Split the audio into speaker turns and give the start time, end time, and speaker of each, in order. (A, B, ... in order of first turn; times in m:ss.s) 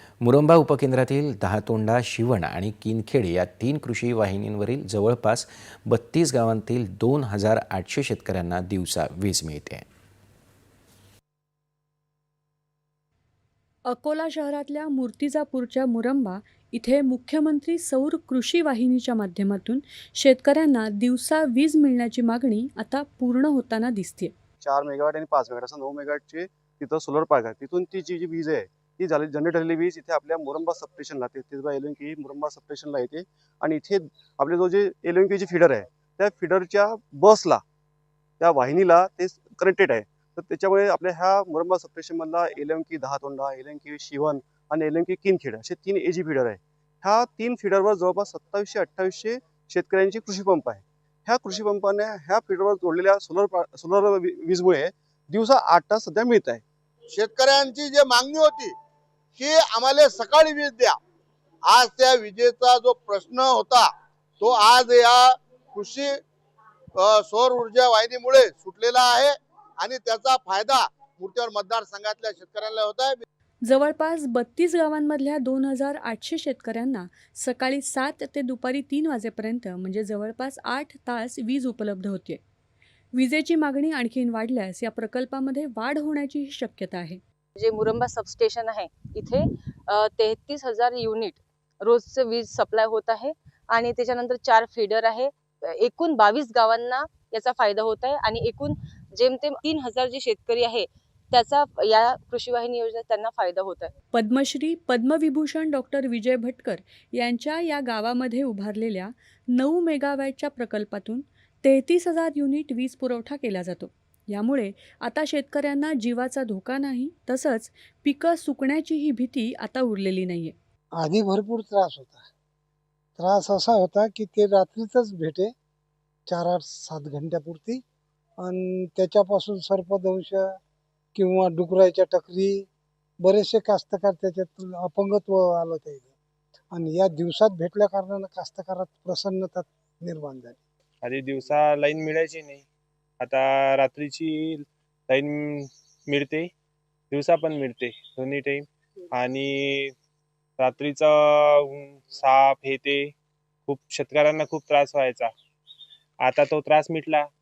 0:00.2-0:09.9 A
0:13.9-0:24.3 B
0:24.6-0:37.6 C
0:38.4-0:56.6 C
0:57.1-0:58.7 D
0:59.4-1:01.0 D
1:01.7-1:06.2 D
1:07.0-1:13.2 D
1:13.6-1:22.4 B
1:23.1-1:27.2 B
1:27.6-1:43.9 E
1:44.1-2:00.6 B
2:01.0-2:02.2 F
2:03.2-2:05.5 F
2:06.3-2:07.8 F
2:08.4-2:10.5 F
2:11.2-2:12.7 F
2:13.2-2:16.1 F
2:16.7-2:20.6 F
2:21.0-2:22.6 G
2:23.2-2:26.5 G
2:27.1-2:29.9 G
2:30.6-2:33.1 G
2:33.7-2:35.3 G
2:36.2-2:37.3 G